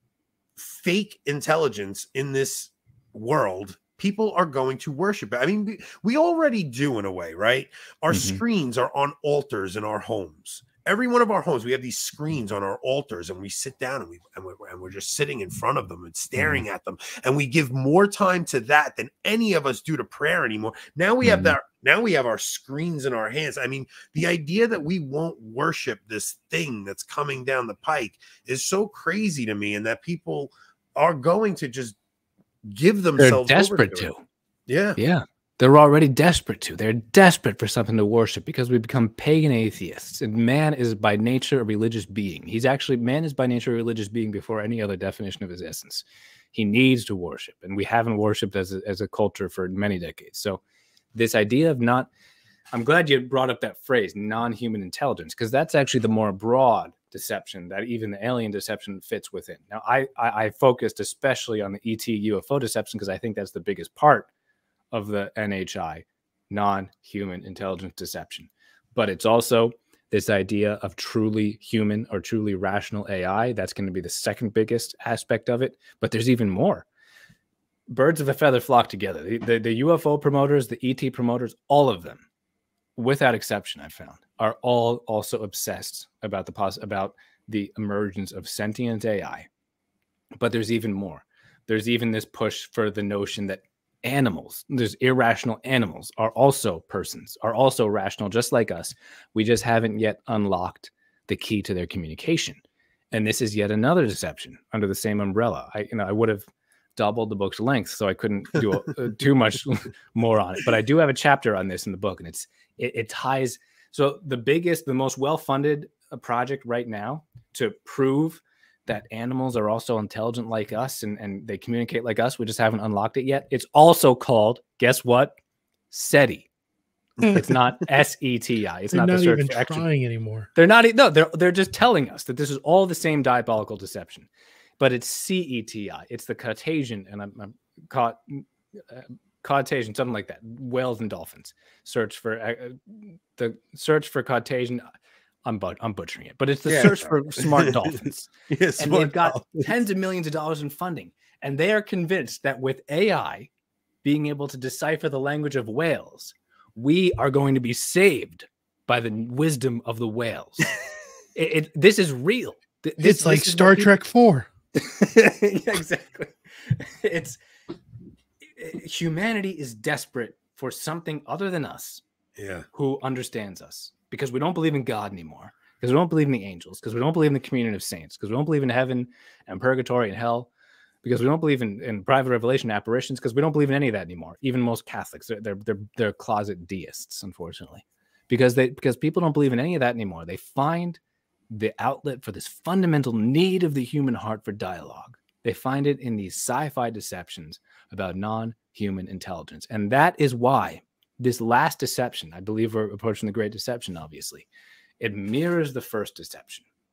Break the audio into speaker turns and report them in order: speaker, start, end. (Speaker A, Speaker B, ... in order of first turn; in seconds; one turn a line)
Speaker A: 0.6-32.0
Speaker B: 8.1-8.4
Speaker B: 16.4-16.6
Speaker B: 21.2-21.6
Speaker A: 32.6-34.1
Speaker B: 33.2-34.2
Speaker A: 34.7-35.0
Speaker B: 35.0-50.6
Speaker B: 51.1-52.1
Speaker B: 52.7-64.3
Speaker B: 64.9-76.9
Speaker B: 77.9-82.2
Speaker B: 83.0-89.5
Speaker B: 90.4-102.6
Speaker B: 103.1-125.3
Speaker B: 125.9-126.5
Speaker B: 127.2-129.8
Speaker C: 128.9-130.5
Speaker B: 130.6-134.3
Speaker B: 134.8-144.8
Speaker B: 145.4-153.5
Speaker A: 146.7-147.9
Speaker A: 148.5-149.7
Speaker B: 154.0-160.8
Speaker B: 161.3-163.9
Speaker C: 163.0-164.5
Speaker B: 164.8-167.4
Speaker B: 168.4-172.0
Speaker A: 172.4-172.7
Speaker B: 172.7-180.5
Speaker B: 181.0-191.0
Speaker B: 191.5-204.5
Speaker B: 205.0-206.7